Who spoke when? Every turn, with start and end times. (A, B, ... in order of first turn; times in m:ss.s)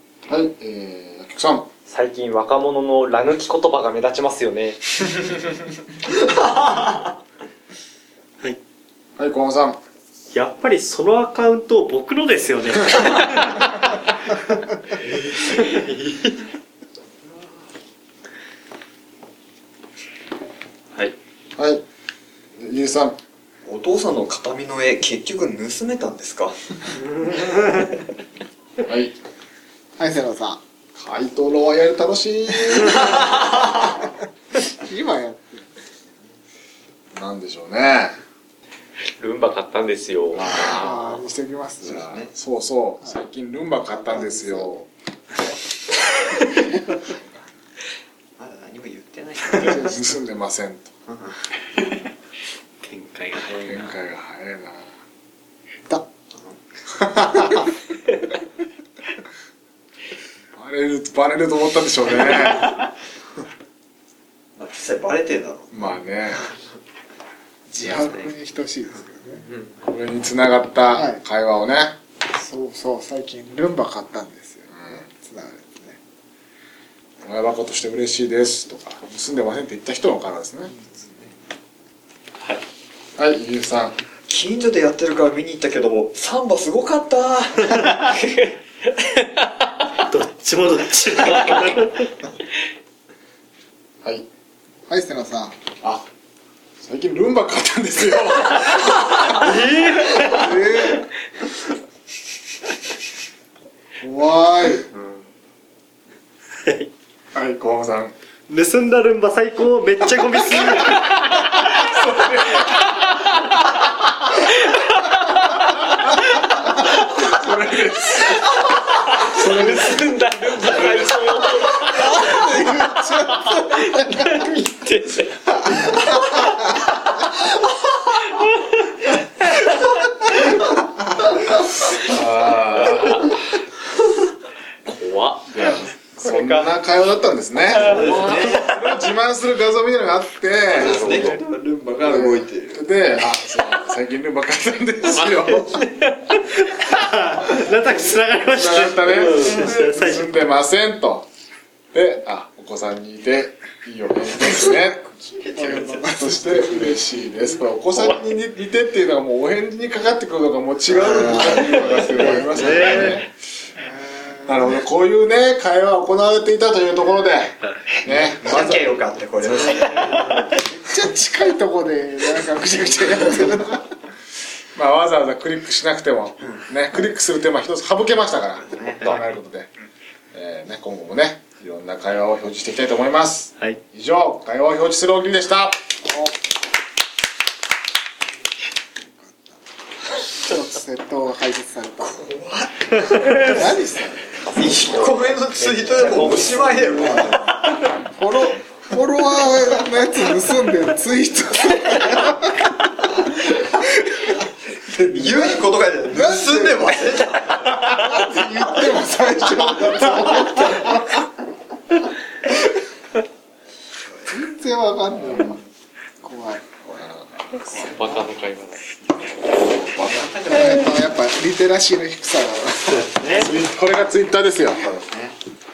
0:00.3-0:01.7 A
0:01.9-0:04.8 B
0:09.2-0:09.8 A
0:10.3-0:13.7 C
0:15.2-0:15.9 D
0:21.6-0:21.8 A
0:22.6-0:23.2 A
0:23.6-0:27.3 D
0:28.8-0:29.1 A
0:30.0-0:30.6 E
0:31.0-0:33.5 A
0:34.8-0:35.7 E
0:37.1-0:38.2 A
0:39.2-0:40.8 B
0:40.3-0:41.0 A
0:40.6-0:42.0 E
0:41.8-0:42.3 D
0:41.8-0:44.8 A
0:43.9-0:44.8 E
0:48.4-0:49.8 D
0:49.4-0:50.9 A
0:51.1-0:51.5 D
0:52.8-0:53.9 C
0:53.4-0:54.9 A
0:56.3-0:56.6 D
1:00.5-1:02.7 A
1:04.6-1:05.9 D
1:05.7-1:06.4 A
1:07.7-1:09.5 E
1:07.8-1:08.3 D
1:09.8-1:12.0 A
1:10.9-1:11.2 E
1:12.3-1:16.0 E
1:14.7-1:15.0 A
1:17.2-1:20.7 A
1:23.2-1:24.0 A
1:24.3-1:28.2 D
1:29.9-1:32.1 C
1:34.9-1:35.6 E
1:35.8-1:36.1 A
1:36.8-1:39.3 A
1:39.2-1:40.5 C
1:40.3-1:41.0 E
1:44.0-1:44.8 E
1:44.9-1:45.2 D
1:46.6-1:46.9 C
1:47.3-1:48.1 A
1:48.5-1:51.6 C
1:51.5-1:52.9 A
1:56.8-1:58.5 A
1:59.0-2:07.3 B
1:59.3-2:00.0 A
2:01.9-2:02.6 D
2:02.0-2:04.3 E
2:08.1-2:09.6 B
2:11.9-2:13.3 A
2:12.8-2:13.3 B
2:14.9-2:16.8 B
2:15.5-2:21.0 A
2:17.7-2:18.6 D
2:17.8-2:18.8 B
2:20.7-2:22.9 D
2:20.7-2:21.4 B
2:22.0-2:25.9 A
2:25.2-2:25.6 B
2:26.0-2:30.3 C
2:28.5-2:31.3 A
2:31.9-2:35.0 A
2:34.4-2:36.0 D
2:35.5-2:37.3 E
2:36.0-2:43.3 A
2:41.0-2:43.2 E
2:41.0-2:42.4 D
2:42.4-2:43.2 C
2:43.8-2:44.8 E
2:44.5-2:48.9 A
2:48.0-2:50.5 D
2:49.6-2:50.2 C
2:50.5-2:53.8 E
2:54.7-2:59.7 A
2:58.7-2:59.1 D
3:00.3-3:05.8 A
3:06.0-3:06.3 E
3:09.2-3:09.6 E
3:10.2-3:12.3 E
3:12.0-3:13.6 D
3:13.3-3:14.4 E
3:14.4-3:17.6 D
3:14.8-3:17.3 B
3:16.2-3:22.7 E
3:23.6-3:24.3 E
3:24.8-3:27.9 D
3:25.1-3:31.0 E
3:30.1-3:30.7 D
3:34.3-3:35.6 E
3:35.2-3:35.6 A
3:36.2-3:36.6 E
3:36.8-3:38.0 A
3:37.7-3:38.9 B
3:39.6-3:40.9 D
3:40.5-3:43.3 E
3:43.1-3:43.5 C
3:43.3-3:44.8 A
3:44.7-3:45.4 D